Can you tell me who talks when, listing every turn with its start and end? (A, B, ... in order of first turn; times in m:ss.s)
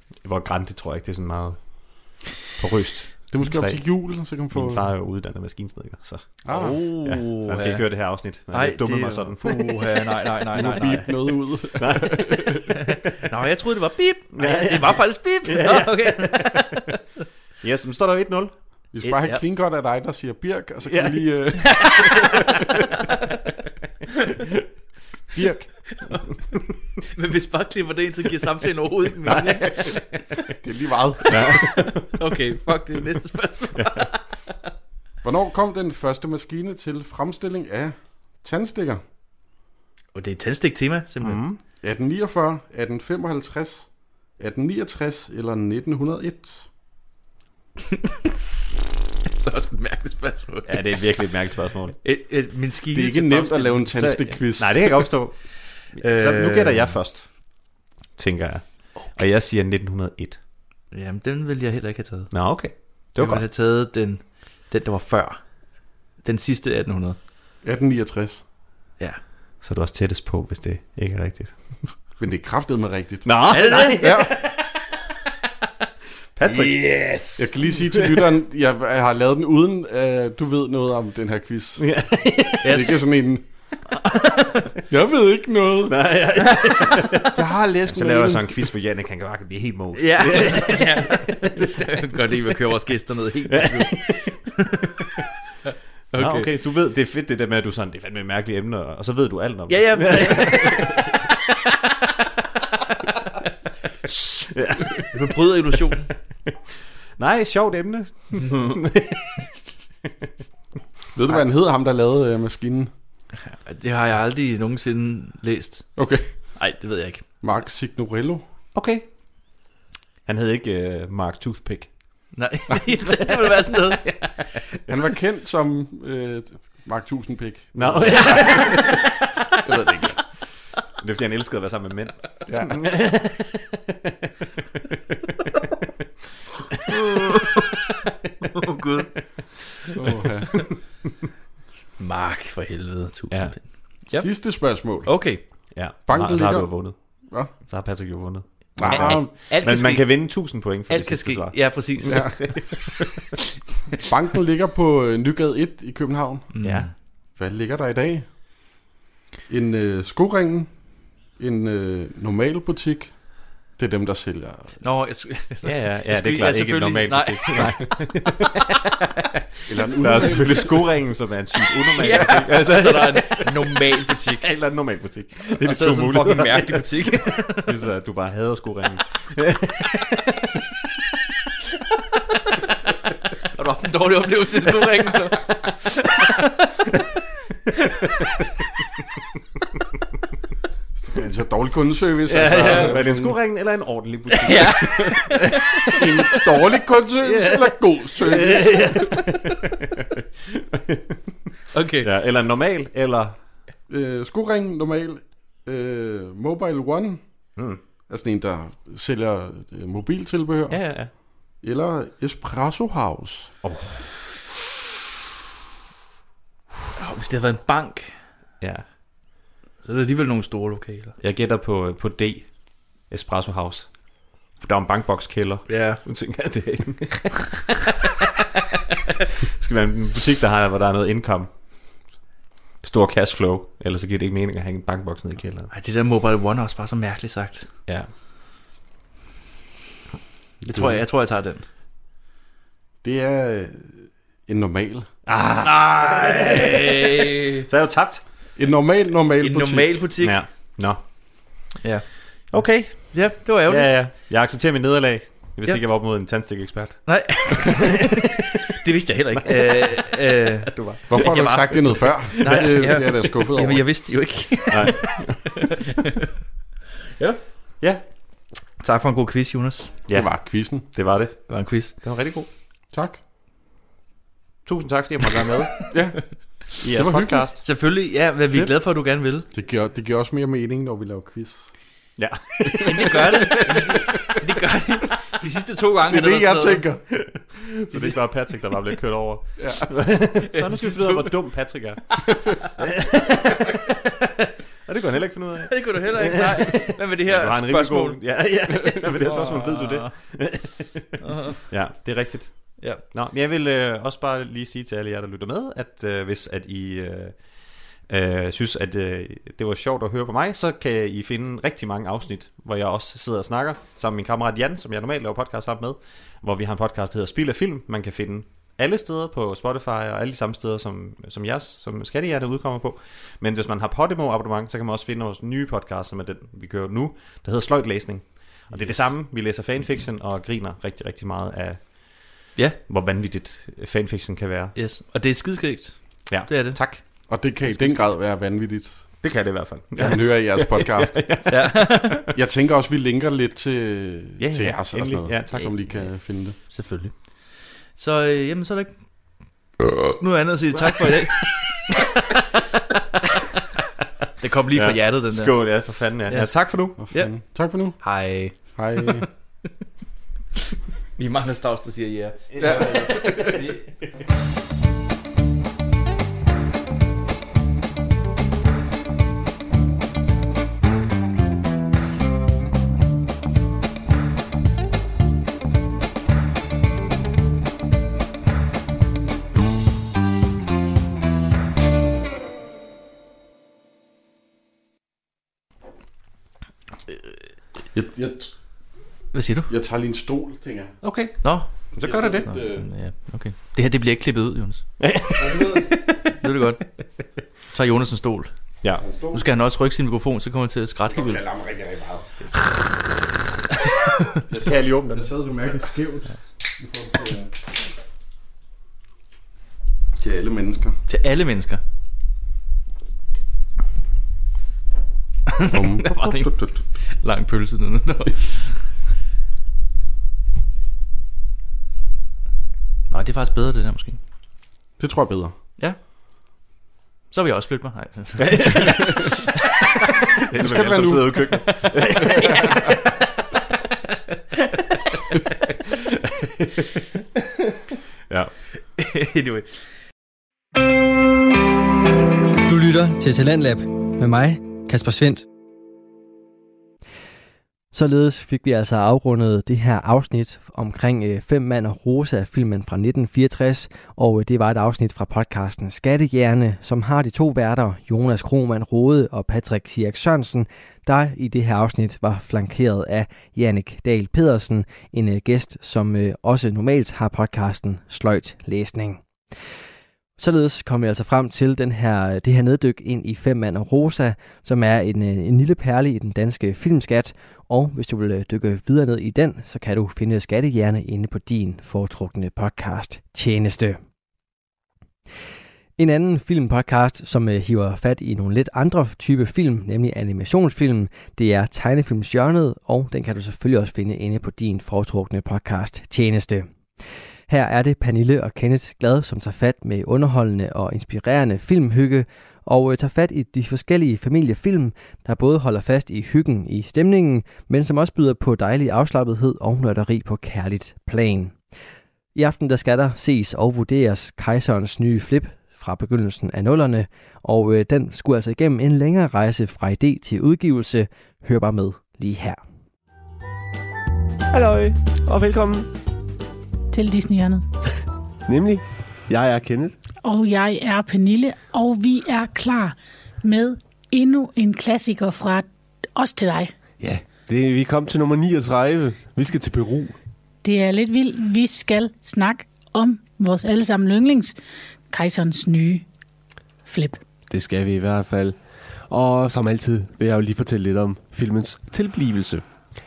0:00.2-0:06.4 A
0:03.3-0:04.9 B
0:06.4-0:06.8 B
0:06.5-0:11.2 C
0:07.0-0:09.9 A
0:10.5-0:12.6 B
0:10.6-0:10.9 A
0:11.8-0:12.8 A
0:12.7-0:17.0 C
0:14.3-0:16.8 A
0:17.6-0:18.5 A
0:18.9-0:22.6 B
0:19.0-0:19.4 C
0:20.9-0:21.7 A
0:21.8-0:22.1 C
0:25.3-0:25.7 B
0:25.9-0:26.2 C
0:27.1-0:30.4 C
0:29.2-0:30.0 A
0:30.6-0:31.8 B
0:31.3-0:32.2 A
0:31.3-0:34.5 C
0:33.7-0:34.1 A
0:35.2-0:39.0 B
0:40.1-0:41.4 C
0:41.2-0:41.6 A
0:41.8-0:46.7 B
0:49.3-0:51.2 C
0:50.7-0:52.0 A
0:52.0-0:53.9 C
0:52.9-0:55.0 B
0:53.9-1:00.4 A
0:55.9-0:57.0 C
1:00.9-1:07.2 C
1:02.3-1:03.4 A
1:07.6-1:08.4 B
1:09.6-1:11.9 A
1:12.2-1:14.3 B
1:13.2-1:14.5 A
1:13.5-1:14.4 C
1:16.4-1:17.2 A
1:16.5-1:17.4 C
1:17.4-1:21.9 B
1:17.9-1:18.2 A
1:21.8-1:22.9 A
1:22.6-1:23.0 C
1:22.6-1:23.4 B
1:24.9-1:26.0 B
1:25.8-1:31.7 A
1:26.5-1:27.0 C
1:27.3-1:28.6 B
1:29.9-1:34.8 C
1:33.5-1:34.3 A
1:36.1-1:36.5 C
1:36.1-1:41.1 A
1:39.7-1:41.2 C
1:44.1-1:45.2 A
1:45.1-1:46.1 C
1:47.2-1:49.5 A
1:51.1-1:52.9 B
1:53.4-1:57.2 C
1:56.0-1:56.6 B
1:57.4-1:58.4 B
1:58.7-1:59.0 A
2:00.2-2:02.3 A
2:02.3-2:04.6 C
2:04.9-2:08.9 B
2:07.7-2:09.1 A
2:08.1-2:09.1 C
2:09.6-2:10.2 B
2:11.0-2:14.1 A
2:12.5-2:12.8 B
2:16.9-2:17.7 C
2:18.6-2:19.1 C
2:20.0-2:20.5 B
2:22.0-2:25.4 C
2:24.1-2:25.2 B
2:25.7-2:33.0 A
2:26.0-2:27.5 B
2:28.8-2:29.3 B
2:28.9-2:32.9 C
2:32.1-2:32.3 B
2:34.0-2:36.5 B
2:36.5-2:36.9 C
2:36.6-2:36.9 A
2:37.4-2:38.2 B
2:39.5-2:44.8 B
2:44.8-2:48.2 C
2:45.6-2:48.6 A
2:49.7-2:50.8 B
2:50.0-2:56.9 A
2:50.1-2:50.6 C
2:51.9-2:54.5 C
2:55.6-2:57.8 C
2:57.6-3:00.2 A
3:03.5-3:06.8 C
3:11.0-3:13.4 B
3:12.3-3:16.1 A
3:12.4-3:13.0 C
3:14.3-3:16.4 C
3:15.9-3:19.2 B
3:17.2-3:21.2 A
3:21.7-3:22.1 C
3:22.0-3:23.4 A
3:23.9-3:27.5 B
3:27.6-3:27.8 A
3:28.1-3:33.5 B
3:30.7-3:31.1 A
3:33.6-3:34.1 A
3:37.0-3:38.1 C
3:39.8-3:41.2 C
3:41.2-3:44.0 A
3:44.5-3:47.9 A
3:45.7-3:46.0 C
3:49.5-3:51.5 A
3:52.8-3:55.7 A
3:55.7-3:57.7 C
4:00.6-4:01.6 C
4:00.6-4:01.0 B
4:03.0-4:05.1 B
4:05.3-4:08.2 A
4:05.6-4:07.6 C
4:08.6-4:10.0 B
4:09.4-4:10.4 C
4:10.2-4:11.6 A
4:12.5-4:17.8 A
4:13.1-4:14.0 C
4:17.0-4:26.2 C
4:19.5-4:19.9 A
4:20.7-4:21.0 A
4:21.1-4:23.8 B
4:24.7-4:25.6 A
4:28.8-4:29.9 C
4:30.1-4:32.5 A
4:30.1-4:30.8 B
4:31.5-4:31.9 C
4:32.9-4:33.2 B
4:34.6-4:35.9 A
4:35.9-4:37.5 B
4:36.8-4:37.6 A
4:37.6-4:39.4 C
4:39.5-4:41.7 B
4:42.2-4:43.6 A
4:42.8-4:46.9 C
4:43.3-4:44.1 B
4:46.1-4:47.0 B
4:47.1-4:53.9 A
4:49.6-4:49.9 B
4:50.5-4:51.4 C
4:54.8-5:34.7 A
4:55.6-5:00.1 C
5:01.2-5:01.6 C
5:34.7-5:36.8 C
5:36.3-5:37.0 A
5:37.3-5:39.2 B
5:37.7-5:38.0 A
5:39.2-5:42.3 A
5:40.0-5:41.5 B
5:41.5-5:42.3 C
5:42.3-5:46.6 B
5:44.4-5:45.7 A
5:46.7-5:48.9 C
5:50.2-5:51.5 C
5:54.4-5:57.3 C
5:54.7-5:57.0 A
5:57.0-5:58.0 B
5:58.0-5:59.3 C
5:58.7-5:59.3 B
6:01.2-6:03.9 C
6:02.6-6:02.8 A
6:02.6-6:03.6 B
6:27.9-6:28.5 B
6:29.3-6:29.7 C
6:29.7-6:30.9 B
6:31.0-6:31.4 A
6:31.4-6:31.7 C
6:31.9-6:32.5 A
6:32.0-6:32.9 B
6:32.4-6:34.8 C
6:35.0-6:36.1 A
6:35.4-6:35.9 B
6:36.4-6:36.9 C
6:37.7-6:38.5 C
6:39.0-6:39.4 B
6:39.3-6:41.4 C
6:41.1-6:42.2 B
6:44.5-6:47.5 B
6:44.6-6:45.3 A
6:50.2-6:51.0 B
6:51.1-6:51.8 C
6:55.5-6:58.8 C
6:55.6-6:56.8 B
7:03.1-7:04.2 C
7:05.0-7:05.5 B
7:07.3-7:09.3 C
7:08.5-7:09.2 A
7:08.9-7:09.2 B
7:10.5-7:12.9 A
7:10.5-7:12.8 B
7:19.0-7:19.7 C
7:22.7-7:25.4 D
7:27.9-7:49.2 D
7:50.4-8:04.0 D
8:06.0-8:16.7 D
8:17.5-8:31.5 D
8:32.3-8:42.6 D
8:44.5-8:45.9 E
8:46.9-8:47.6 F
8:48.4-8:49.9 E
8:50.2-8:56.7 F
8:57.0-9:00.1 E
9:00.6-9:04.6 F
9:05.1-9:06.0 F
9:06.8-9:07.2 F
9:07.5-9:08.6 E
9:09.1-9:12.6 E